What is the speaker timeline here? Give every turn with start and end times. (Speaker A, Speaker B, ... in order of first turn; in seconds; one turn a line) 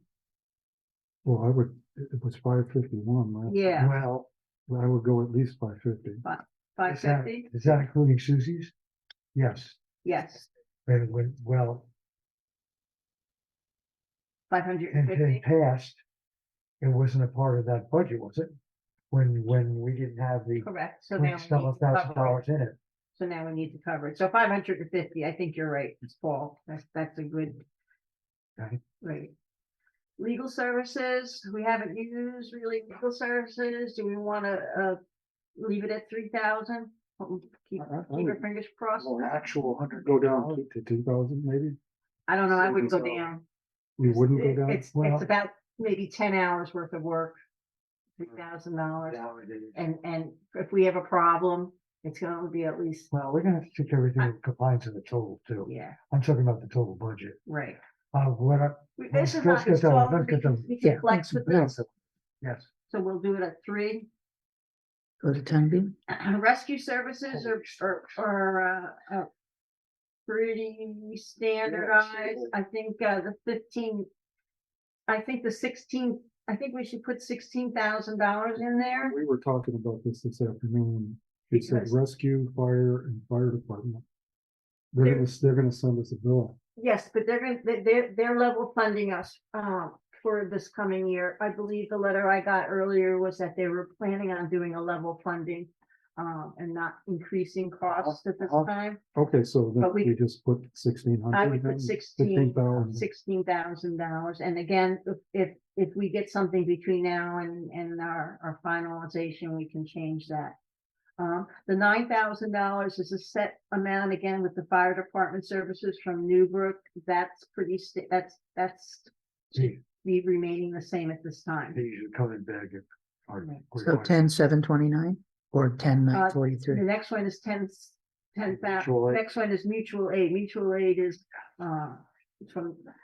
Speaker A: 1.2-3.8
Speaker B: 3.5-3.9
Speaker C: 3.8-4.3
Speaker A: 4.7-6.2
Speaker B: 6.2-7.5
Speaker C: 6.8-8.7
Speaker C: 9.3-9.8
Speaker B: 10.0-10.5
Speaker C: 10.8-11.9
Speaker B: 14.5-15.4
Speaker C: 14.9-16.0
Speaker C: 16.8-18.5
Speaker C: 19.1-22.8
Speaker B: 20.6-22.4
Speaker B: 23.1-27.6
Speaker B: 29.0-29.3
Speaker B: 30.2-35.0
Speaker B: 35.5-39.2
Speaker A: 37.9-38.4
Speaker C: 39.0-40.6
Speaker A: 40.0-41.8
Speaker B: 42.3-43.4
Speaker A: 42.6-43.1
Speaker A: 44.0-44.9
Speaker B: 44.0-47.4
Speaker C: 44.9-45.3
Speaker B: 48.2-53.1
Speaker C: 49.0-49.8
Speaker C: 53.1-57.4
Speaker B: 55.6-56.0
Speaker B: 57.5-57.8
Speaker C: 58.1-60.7
Speaker B: 59.0-61.7
Speaker D: 60.8-61.8
Speaker C: 61.5-61.9
Speaker C: 62.4-62.7
Speaker B: 62.9-64.1
Speaker D: 65.2-65.9
Speaker B: 66.1-69.3
Speaker C: 67.3-67.8
Speaker B: 70.2-74.1
Speaker C: 71.7-72.5
Speaker B: 75.1-79.2
Speaker A: 79.1-84.0
Speaker B: 81.5-82.0
Speaker A: 84.9-86.5
Speaker B: 85.0-85.3
Speaker B: 86.8-99.0
Speaker A: 98.5-103.0
Speaker B: 99.8-100.1
Speaker B: 101.3-110.5
Speaker B: 111.2-121.8
Speaker C: 119.5-119.8
Speaker C: 121.7-124.2
Speaker D: 123.8-126.8
Speaker B: 126.1-132.9
Speaker C: 128.6-129.2